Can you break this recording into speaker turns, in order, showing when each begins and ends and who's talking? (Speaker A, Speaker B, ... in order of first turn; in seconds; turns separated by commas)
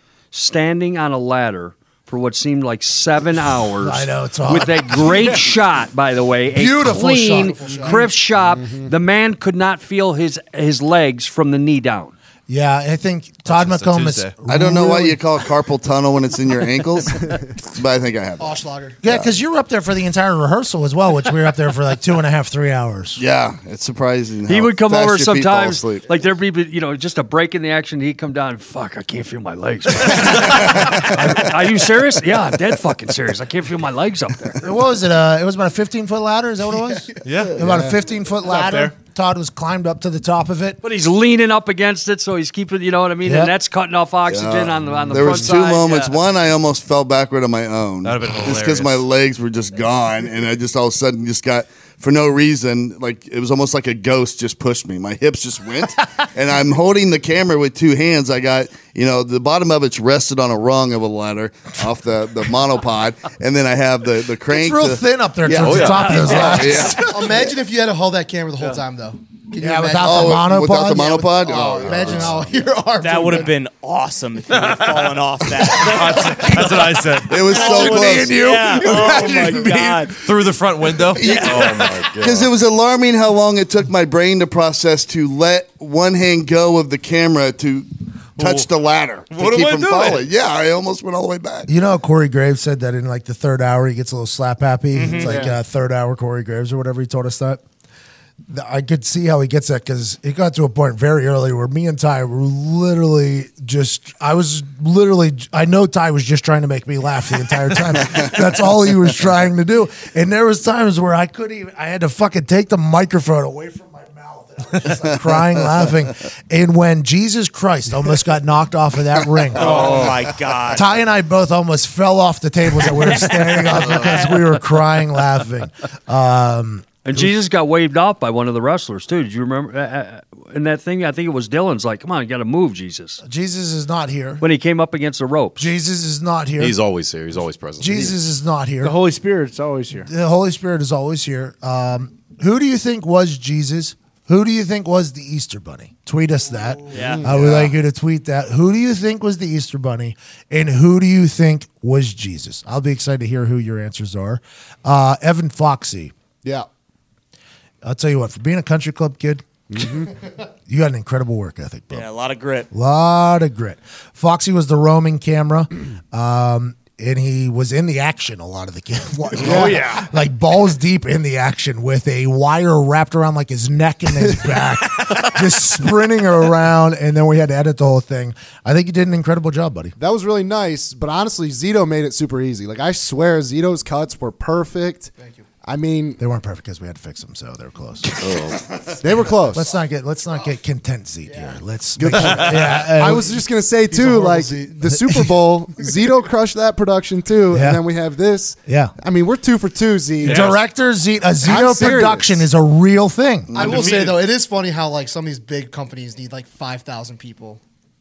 Speaker A: 0.3-12.1, Speaker B: 3.8-5.2, Speaker B: 6.5-7.8, Speaker C: 7.4-8.2, Speaker D: 7.9-8.9, Speaker B: 12.5-15.2, Speaker E: 13.5-14.3, Speaker F: 14.5-19.3, Speaker C: 18.4-19.0, Speaker B: 19.0-23.2, Speaker F: 23.2-26.1, Speaker A: 24.5-34.6, Speaker B: 34.6-40.8, Speaker E: 37.2-37.5, Speaker D: 37.6-38.0, Speaker G: 38.4-38.9, Speaker A: 40.8-46.2, Speaker B: 43.2-43.5, Speaker F: 44.3-67.0, Speaker E: 48.0-49.0, Speaker B: 64.5-67.5, Speaker H: 65.5-66.2, Speaker C: 67.0-73.5, Speaker B: 69.6-72.5, Speaker F: 70.0-72.4, Speaker I: 73.0-76.8, Speaker E: 74.5-77.6, Speaker F: 77.3-78.8, Speaker I: 77.3-80.2, Speaker B: 77.6-80.1, Speaker E: 80.2-81.9, Speaker F: 81.2-91.7, Speaker H: 81.3-82.5, Speaker E: 89.3-90.2, Speaker B: 91.7-97.6, Speaker I: 94.9-95.5, Speaker G: 95.2-95.5, Speaker B: 98.5-120.1, Speaker I: 119.5-120.9, Speaker G: 119.6-120.2, Speaker B: 120.7-127.3, Speaker I: 123.0-124.3, Speaker A: 127.0-133.2, Speaker B: 133.2-134.4, Speaker A: 134.4-135.7, Speaker B: 135.6-136.8, Speaker H: 136.6-138.2, Speaker B: 137.8-139.0, Speaker G: 138.8-140.1, Speaker B: 140.0-156.1, Speaker I: 146.9-147.3, Speaker D: 147.0-147.5, Speaker B: 157.8-159.9, Speaker D: 159.7-160.1, Speaker B: 160.7-162.1, Speaker I: 161.9-162.7, Speaker B: 162.7-179.9, Speaker D: 169.4-169.8, Speaker G: 169.5-170.1, Speaker D: 180.0-185.1, Speaker C: 185.2-185.5, Speaker D: 185.6-186.2, Speaker B: 186.2-188.4, Speaker H: 188.2-188.7, Speaker D: 189.0-189.6, Speaker B: 189.5-193.3, Speaker C: 191.3-191.6, Speaker D: 192.0-200.5, Speaker E: 192.2-192.7, Speaker C: 193.9-194.8, Speaker B: 194.9-195.3, Speaker B: 197.5-197.8, Speaker B: 198.7-198.9, Speaker B: 200.2-203.9, Speaker E: 200.2-200.6, Speaker D: 201.4-202.5, Speaker F: 203.5-204.2, Speaker C: 203.6-207.6